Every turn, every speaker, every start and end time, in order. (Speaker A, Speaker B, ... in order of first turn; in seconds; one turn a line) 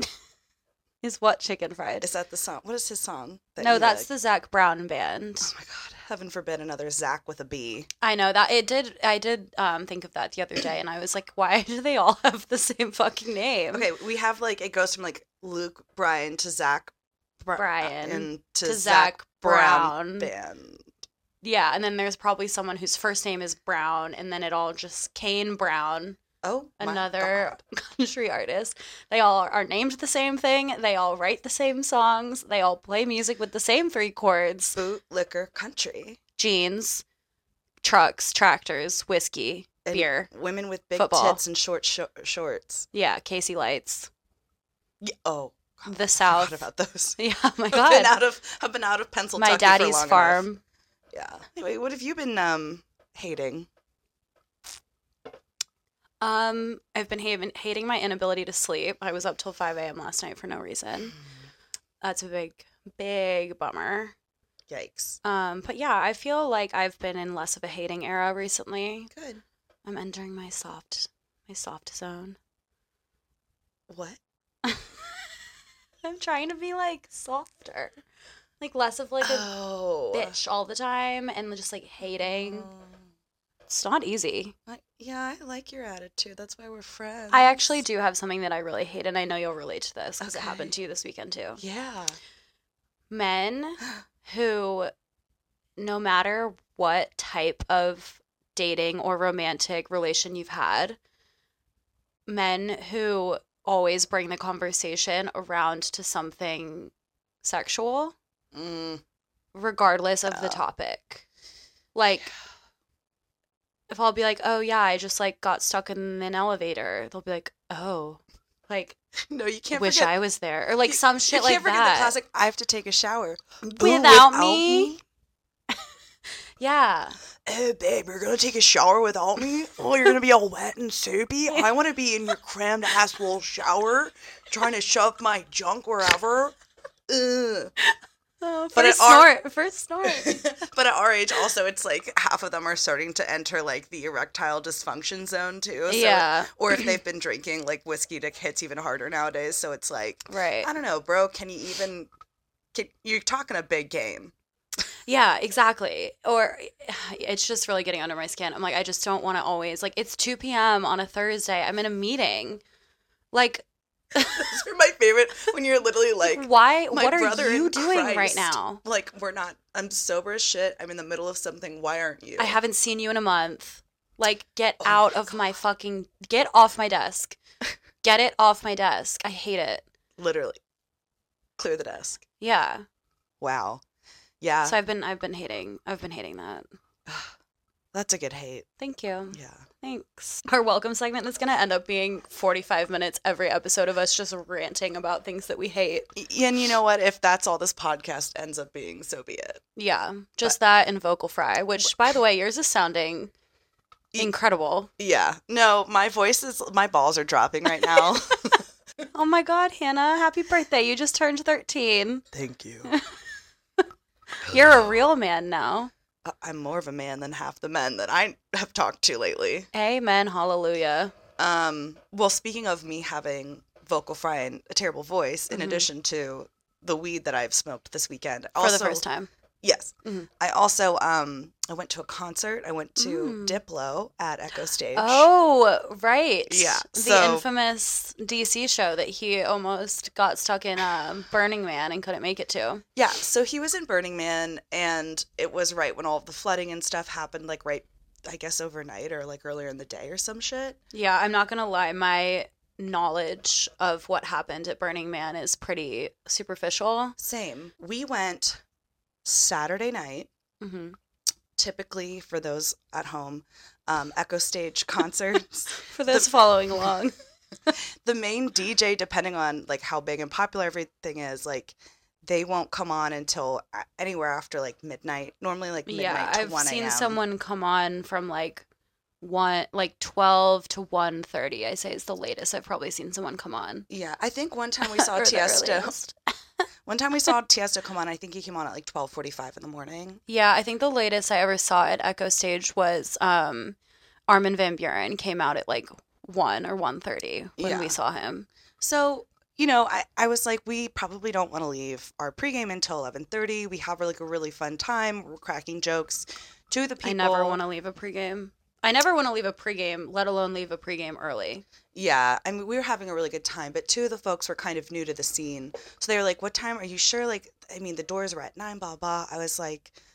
Speaker A: 1.0-2.1
Speaker B: 2.0-4.1
Speaker A: 3.6-5.5
Speaker B: 5.4-7.9
Speaker A: 8.0-13.8
Speaker B: 13.7-20.9
Speaker A: 17.6-20.3
Speaker A: 21.4-26.2
Speaker B: 26.4-27.6
Speaker A: 26.8-34.8
Speaker B: 34.8-36.2
Speaker A: 36.4-37.0
Speaker A: 37.8-40.3
Speaker B: 39.8-42.9
Speaker A: 40.9-41.4
Speaker A: 42.9-44.1
Speaker B: 45.0-47.2
Speaker A: 45.9-48.1
Speaker B: 47.7-50.4
Speaker A: 49.4-50.6
Speaker B: 51.1-53.7
Speaker A: 56.2-61.2
Speaker A: 62.0-64.1
Speaker B: 64.7-65.2
Speaker A: 65.2-69.1
Speaker B: 69.1-69.4
Speaker A: 69.8-72.4
Speaker B: 73.9-74.2
Speaker A: 74.6-75.1
Speaker A: 76.0-77.9
Speaker A: 78.6-79.5
Speaker B: 79.2-80.4
Speaker A: 80.1-82.7
Speaker B: 82.2-83.0
Speaker A: 83.7-84.5
Speaker B: 84.7-87.8
Speaker A: 87.3-91.6
Speaker B: 90.2-90.7
Speaker B: 91.6-92.2
Speaker A: 93.1-94.9
Speaker A: 95.8-101.0
Speaker A: 102.3-106.9
Speaker A: 107.4-108.1
Speaker B: 108.5-109.0
Speaker A: 109.5-111.2
Speaker B: 110.3-110.6
Speaker A: 111.9-112.3
Speaker A: 113.9-119.0
Speaker B: 119.3-120.1
Speaker A: 119.7-122.1
Speaker B: 120.9-125.0
Speaker A: 123.6-124.9
Speaker A: 126.6-127.2
Speaker B: 127.4-136.6
Speaker B: 137.1-137.7
Speaker A: 137.8-140.4
Speaker B: 138.7-139.3
Speaker B: 140.0-152.1
Speaker A: 145.9-146.9
Speaker A: 150.3-150.7
Speaker B: 152.7-154.3
Speaker A: 155.1-162.6
Speaker A: 163.3-164.6
Speaker B: 164.2-172.6
Speaker A: 166.2-168.8
Speaker A: 172.4-177.4
Speaker B: 174.8-175.4
Speaker A: 178.0-179.8
Speaker B: 180.2-180.6
Speaker B: 181.6-182.2
Speaker A: 182.4-182.8
Speaker B: 183.4-183.8
Speaker B: 184.4-184.8
Speaker A: 184.6-186.7
Speaker B: 187.1-187.3
Speaker B: 187.9-188.7
Speaker A: 188.8-196.1
Speaker B: 189.3-189.6
Speaker B: 196.1-199.6
Speaker A: 199.8-203.3
Speaker A: 204.2-204.9
Speaker B: 205.0-208.6
Speaker A: 209.1-212.2
Speaker B: 212.3-212.9
Speaker A: 212.8-213.1
Speaker A: 213.8-215.9
Speaker B: 216.2-219.7
Speaker A: 219.7-221.1
Speaker B: 221.4-229.0
Speaker A: 225.5-225.9
Speaker A: 228.6-229.3
Speaker B: 229.6-235.3
Speaker A: 233.0-233.6
Speaker A: 234.9-242.8
Speaker B: 236.5-237.4
Speaker B: 242.9-250.8
Speaker A: 250.9-257.2
Speaker B: 257.2-258.6
Speaker B: 259.2-260.3
Speaker A: 260.6-261.0
Speaker B: 261.6-266.3
Speaker A: 265.8-267.1
Speaker B: 268.0-277.2
Speaker A: 275.9-278.6
Speaker A: 279.2-283.9
Speaker B: 283.9-285.9
Speaker A: 284.8-286.1
Speaker B: 286.9-290.2
Speaker A: 290.3-293.8
Speaker A: 294.3-298.5
Speaker B: 297.6-297.9
Speaker B: 298.8-307.6
Speaker A: 307.0-311.6
Speaker B: 311.9-319.9